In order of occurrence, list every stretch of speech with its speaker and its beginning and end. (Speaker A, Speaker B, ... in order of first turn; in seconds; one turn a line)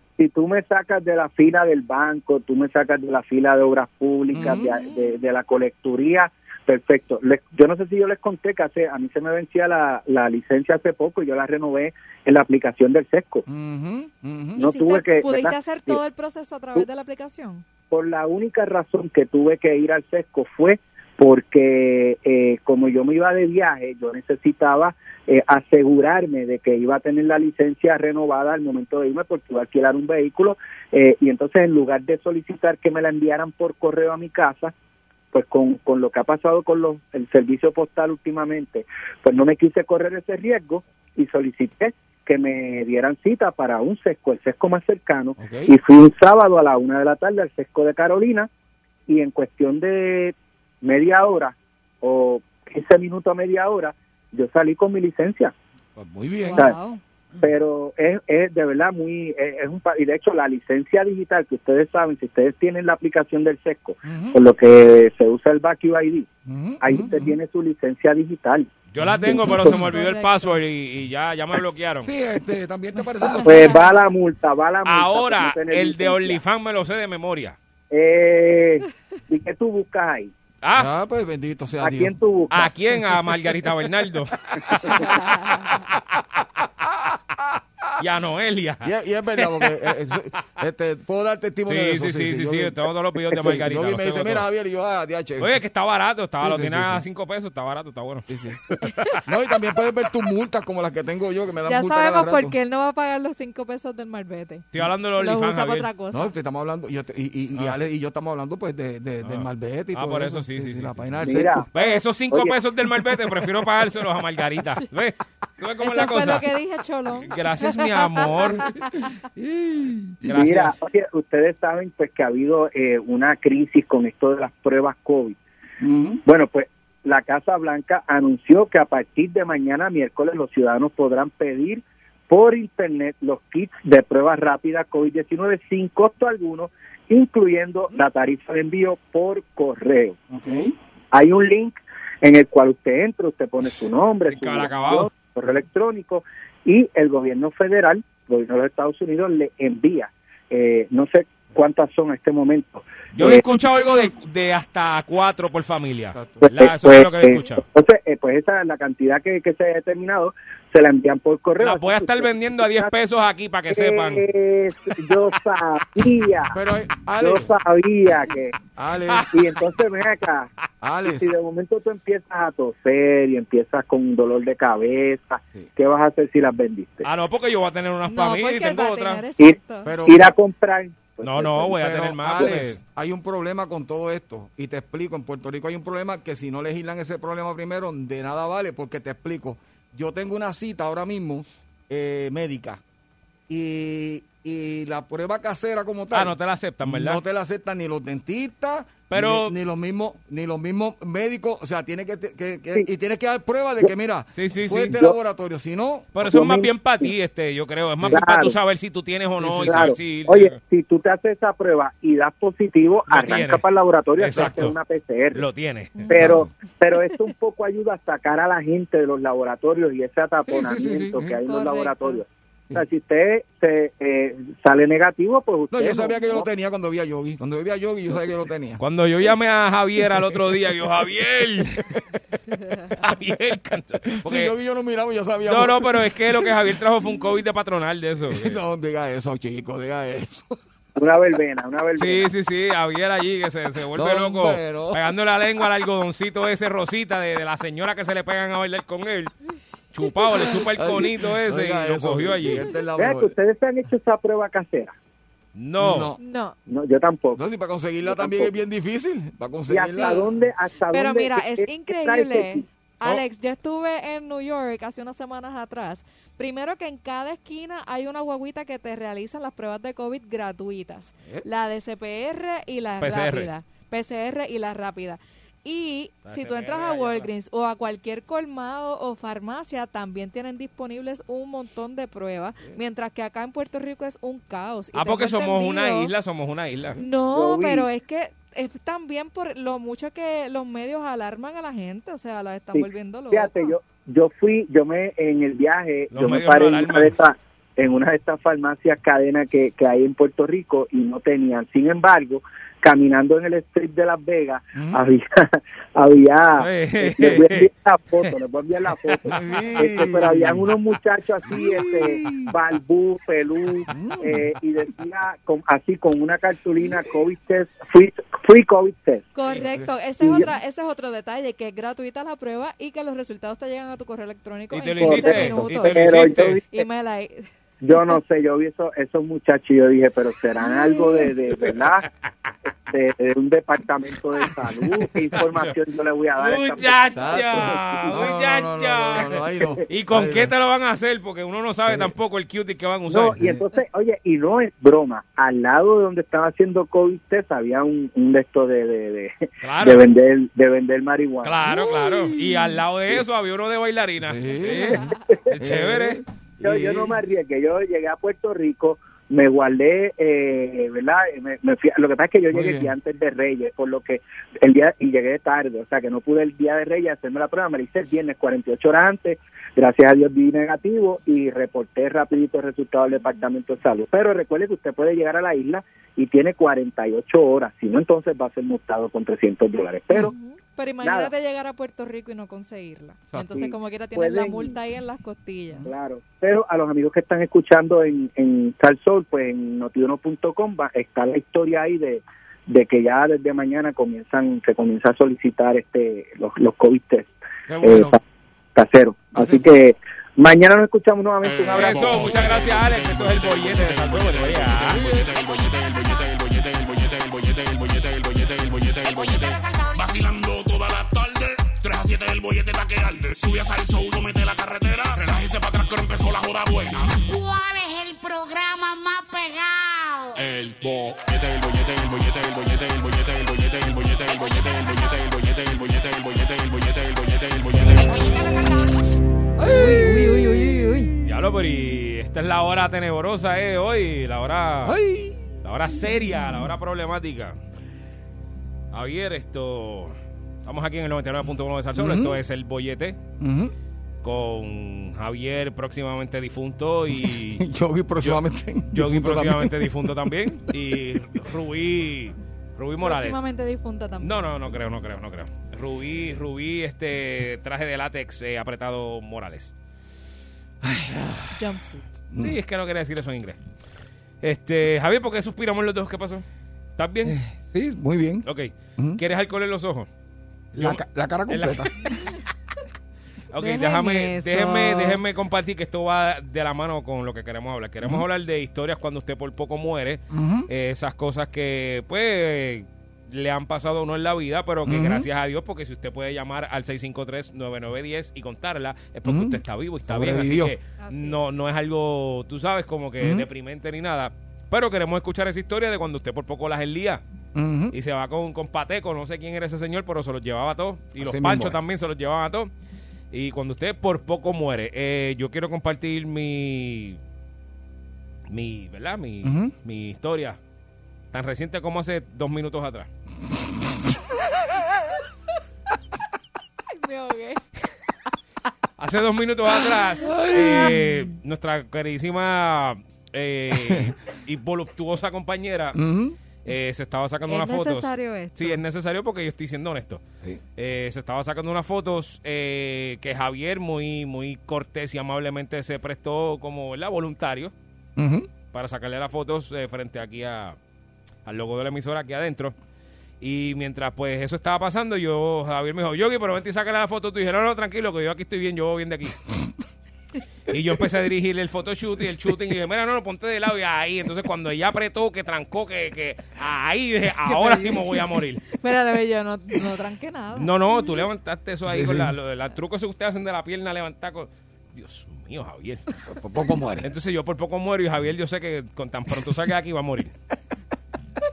Speaker A: 0.2-13.4
Speaker B: 4.3-4.9
Speaker B: 13.5-14.7
Speaker A: 14.6-16.0
Speaker C: 14.6-17.6
Speaker A: 17.9-34.7
Speaker A: 35.3-48.5
Speaker B: 45.4-45.7
Speaker A: 49.1-55.5
Speaker B: 56.0-56.7
Speaker C: 56.4-57.0
Speaker A: 57.4-66.3
Speaker B: 64.0-64.4
Speaker B: 66.5-67.3
Speaker A: 66.8-68.7
Speaker D: 68.9-72.1
Speaker B: 69.0-69.9
Speaker C: 69.5-70.6
Speaker B: 72.0-73.8
Speaker C: 73.2-73.8
Speaker A: 73.4-76.4
Speaker D: 74.8-77.5
Speaker A: 77.9-80.3
Speaker D: 80.6-80.9
Speaker B: 80.7-82.1
Speaker A: 81.8-82.7
Speaker D: 82.5-85.2
Speaker B: 84.8-86.0
Speaker C: 85.2-85.6
Speaker B: 86.6-87.9
Speaker D: 88.0-89.7
Speaker B: 88.8-95.6
Speaker D: 91.7-94.4
Speaker D: 95.4-98.9
Speaker B: 96.4-97.0
Speaker B: 98.3-98.6
Speaker B: 99.2-102.6
Speaker C: 101.7-106.3
Speaker D: 104.7-105.9
Speaker B: 106.1-111.7
Speaker D: 109.2-111.1
Speaker A: 111.2-112.6
Speaker D: 111.7-116.5
Speaker C: 115.8-118.9
Speaker D: 117.2-118.7
Speaker B: 118.4-118.7
Speaker B: 119.3-120.4
Speaker D: 120.2-120.7
Speaker A: 120.3-125.4
Speaker B: 125.8-126.2
Speaker A: 126.2-140.2
Speaker B: 140.3-140.7
Speaker A: 141.1-153.4
Speaker D: 144.3-145.1
Speaker D: 153.2-157.6
Speaker B: 156.1-156.5
Speaker A: 156.4-162.9
Speaker D: 161.6-164.2
Speaker A: 163.7-166.6
Speaker B: 166.5-167.5
Speaker A: 167.2-168.6
Speaker B: 168.7-169.5
Speaker A: 169.3-170.5
Speaker B: 170.8-171.4
Speaker A: 171.0-177.1
Speaker D: 177.0-179.2
Speaker C: 178.1-179.9
Speaker A: 179.4-181.8
Speaker B: 179.8-180.3
Speaker D: 181.2-182.8
Speaker B: 181.6-192.8
Speaker A: 182.3-182.6
Speaker B: 193.5-206.3
Speaker D: 196.1-197.2
Speaker D: 199.1-199.5
Speaker D: 204.3-205.0
Speaker D: 206.1-210.5
Speaker A: 206.2-207.1
Speaker B: 208.0-208.3
Speaker A: 208.1-208.6
Speaker B: 209.4-210.0
Speaker A: 209.6-215.4
Speaker D: 213.1-213.6
Speaker D: 214.2-214.8
Speaker B: 214.3-214.7
Speaker D: 215.3-216.2
Speaker B: 216.1-216.5
Speaker A: 216.1-226.5
Speaker B: 220.5-221.4
Speaker C: 221.4-222.2
Speaker B: 225.7-228.8
Speaker D: 228.8-232.0
Speaker D: 233.0-234.5
Speaker B: 234.2-236.6
Speaker D: 235.4-238.6
Speaker B: 238.3-240.6
Speaker A: 240.9-242.3
Speaker D: 242.0-249.3
Speaker B: 243.9-245.1
Speaker D: 249.9-252.6
Speaker B: 250.3-253.3
Speaker A: 252.9-254.9
Speaker D: 255.5-256.1
Speaker B: 255.8-256.2
Speaker C: 256.2-256.6
Speaker A: 256.7-257.4
Speaker B: 257.3-260.4
Speaker A: 258.0-258.5
Speaker A: 259.7-262.6
Speaker C: 260.9-286.1
Speaker D: 273.0-273.5
Speaker D: 276.2-277.3
Speaker D: 284.9-287.0
Speaker C: 287.0-293.7
Speaker A: 287.3-287.9
Speaker A: 292.7-319.3
Speaker D: 296.1-297.1
Speaker B: 304.7-305.0
Speaker D: 306.6-307.7
Speaker B: 309.2-310.7
Speaker B: 311.4-312.5
Speaker B: 313.9-314.5
Speaker C: 319.3-327.5
Speaker B: 319.6-319.9
Speaker A: 320.2-320.5
Speaker D: 324.7-326.6
Speaker A: 325.0-326.9
Speaker A: 327.8-332.1
Speaker C: 330.7-331.2
Speaker A: 332.9-338.0
Speaker D: 335.4-335.7
Speaker D: 336.4-343.5
Speaker B: 337.1-340.5
Speaker B: 341.9-342.1
Speaker A: 343.1-351.6
Speaker D: 349.6-350.1
Speaker D: 351.4-356.2
Speaker B: 351.6-353.2
Speaker B: 354.2-355.0
Speaker C: 354.9-355.3
Speaker B: 355.5-357.2
Speaker A: 356.6-380.3
Speaker B: 362.5-362.9
Speaker C: 380.1-385.9
Speaker A: 381.0-381.3
Speaker B: 383.3-383.6
Speaker A: 383.6-384.7
Speaker A: 385.8-398.2
Speaker B: 397.7-398.2
Speaker A: 398.7-402.2
Speaker B: 399.3-399.7
Speaker E: 401.5-417.3
Speaker B: 401.7-402.7
Speaker D: 401.7-405.0
Speaker B: 404.8-405.3
Speaker F: 409.1-410.0
Speaker F: 417.3-420.4
Speaker E: 420.4-428.1
Speaker F: 428.0-428.9
Speaker B: 429.6-431.2
Speaker C: 429.7-431.1
Speaker D: 431.2-435.0
Speaker B: 434.8-435.6
Speaker D: 435.6-437.6
Speaker D: 438.9-443.2
Speaker B: 441.9-442.4
Speaker B: 443.4-443.7
Speaker D: 444.2-447.6
Speaker B: 447.1-450.1
Speaker D: 448.2-453.4
Speaker C: 453.0-454.4
Speaker D: 454.2-459.7
Speaker B: 460.8-461.7
Speaker C: 461.5-462.1
Speaker B: 462.3-462.6
Speaker D: 462.4-463.6
Speaker D: 464.4-466.4
Speaker D: 467.0-467.4
Speaker B: 467.2-468.4
Speaker D: 468.4-470.1
Speaker B: 470.7-471.9
Speaker D: 470.8-472.1
Speaker D: 473.5-497.2
Speaker C: 473.6-475.2
Speaker B: 480.3-480.7
Speaker B: 484.9-485.3
Speaker B: 489.2-490.7
Speaker C: 491.0-491.4
Speaker B: 493.2-493.5
Speaker B: 497.5-497.9
Speaker D: 497.9-502.7
Speaker B: 501.2-501.8
Speaker D: 503.3-507.2
Speaker D: 508.5-510.6
Speaker B: 509.4-509.7
Speaker D: 511.3-513.1
Speaker C: 516.9-517.6
Speaker D: 519.0-526.0
Speaker B: 520.2-521.1
Speaker C: 520.5-521.1
Speaker B: 523.7-524.1
Speaker B: 525.9-526.4
Speaker D: 526.6-530.2
Speaker C: 527.5-528.8
Speaker D: 530.8-537.7
Speaker B: 538.1-538.5
Speaker D: 538.7-540.8
Speaker D: 541.5-542.7
Speaker D: 543.4-549.4
Speaker D: 550.7-558.6
Speaker C: 557.5-558.0
Speaker C: 558.7-560.7
Speaker D: 560.5-566.0
Speaker B: 561.8-562.3
Speaker B: 566.2-567.1
Speaker D: 567.0-570.3